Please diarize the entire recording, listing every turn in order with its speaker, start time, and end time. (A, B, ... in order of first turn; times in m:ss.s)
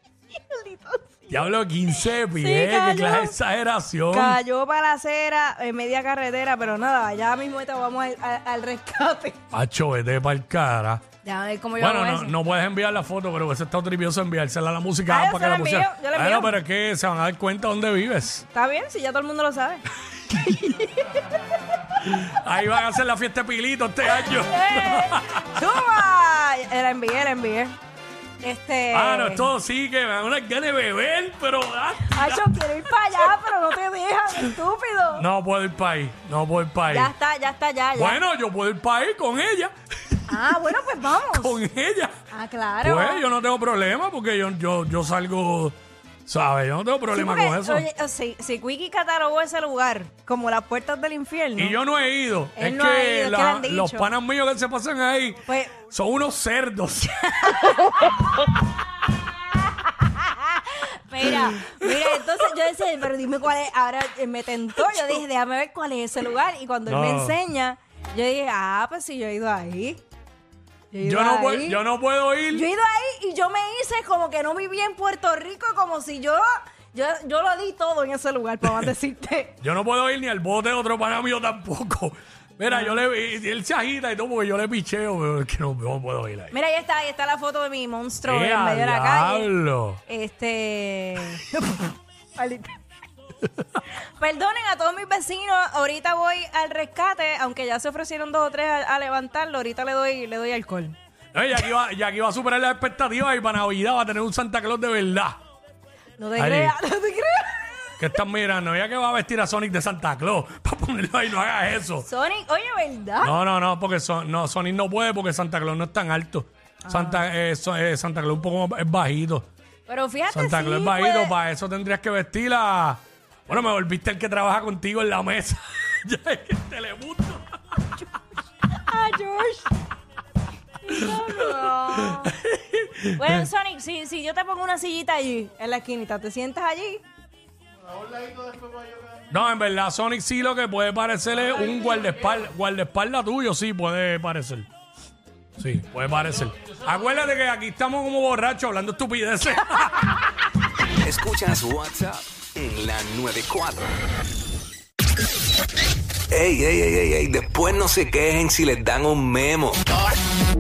0:00.4-0:03.4 A
0:01.3-0:04.4 B
0:04.1-0:09.4 A
0:09.5-0:11.0 B
0:11.2-0:12.4 A
0:11.8-0:18.4 B
0:15.1-0:16.5 A
0:18.5-0:21.4 A
0:21.9-0:25.5 B
0:24.1-0:27.8 A
0:28.4-0:29.5 A
0:28.9-0:33.3 B
0:32.0-0:35.2 A
0:35.1-0:37.1 B
0:36.9-0:38.2 A
0:38.0-0:40.4 B
0:40.3-0:41.6 A
0:41.3-0:42.2 B
0:42.3-0:43.2 A
0:42.8-0:47.8 B
0:47.1-0:51.8 A
0:51.6-0:57.3 B
0:52.6-0:54.1 A
0:55.5-0:55.8 A
0:57.1-1:10.0 A
1:01.2-1:02.3 B
1:06.9-1:07.4 B
1:10.9-1:11.8 A
1:11.0-1:12.7 B
1:12.5-1:19.6 A
1:19.6-1:26.5 B
1:22.7-1:23.0 A
1:26.5-1:29.5 A
1:28.2-1:30.0 B
1:30.1-1:32.8 A
1:34.0-1:40.9 A
1:41.3-1:45.4 B
1:46.2-1:47.9 A
1:46.4-1:46.8 B
1:48.0-1:52.1 B
1:52.0-1:53.3 A
1:53.2-1:59.4 B
1:56.8-1:57.2 A
1:59.9-2:01.3 A
2:00.3-2:08.0 B
2:08.7-2:09.7 A
2:10.8-2:12.3 A
2:10.9-2:13.5 B
2:13.2-2:17.0 A
2:19.3-2:24.7 B
2:25.6-2:30.1 B
2:31.0-2:33.9 C
2:36.3-2:40.1 C